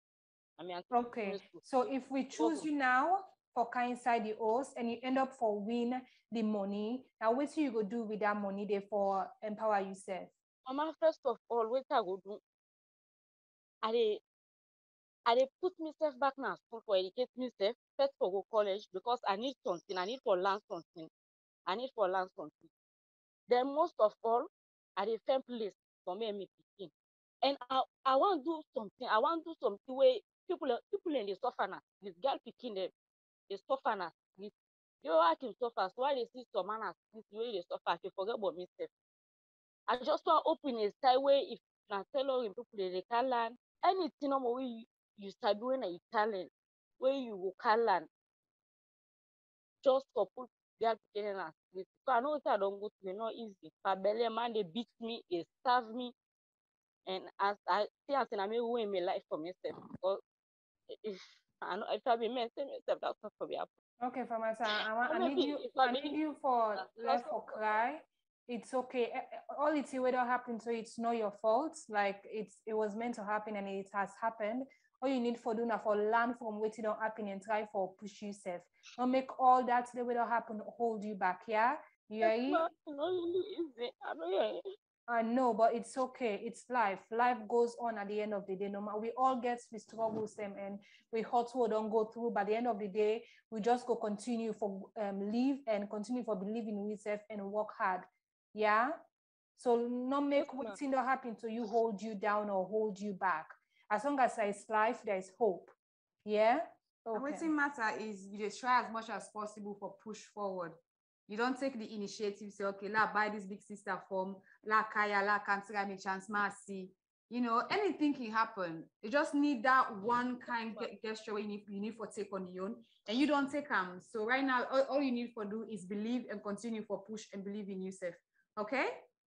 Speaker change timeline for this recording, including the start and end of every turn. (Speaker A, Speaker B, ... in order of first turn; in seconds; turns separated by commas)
Speaker A: 0.6-1.6, Speaker B: 0.9-10.3, Speaker A: 2.3-2.7, Speaker A: 10.7-12.4, Speaker A: 13.8-14.2, Speaker A: 15.3-21.1, Speaker A: 21.7-22.7, Speaker A: 23.5-26.9, Speaker A: 27.4-32.9, Speaker A: 33.5-34.5, Speaker A: 35.0-38.9, Speaker A: 39.9-48.1, Speaker A: 49.8-56.1, Speaker A: 57.1-60.2, Speaker A: 60.9-63.7, Speaker B: 64.0-82.7, Speaker A: 65.0-66.2, Speaker A: 66.7-67.6, Speaker A: 82.2-84.6, Speaker B: 85.1-99.0, Speaker B: 99.6-107.5, Speaker A: 100.3-100.8, Speaker C: 107.1-129.0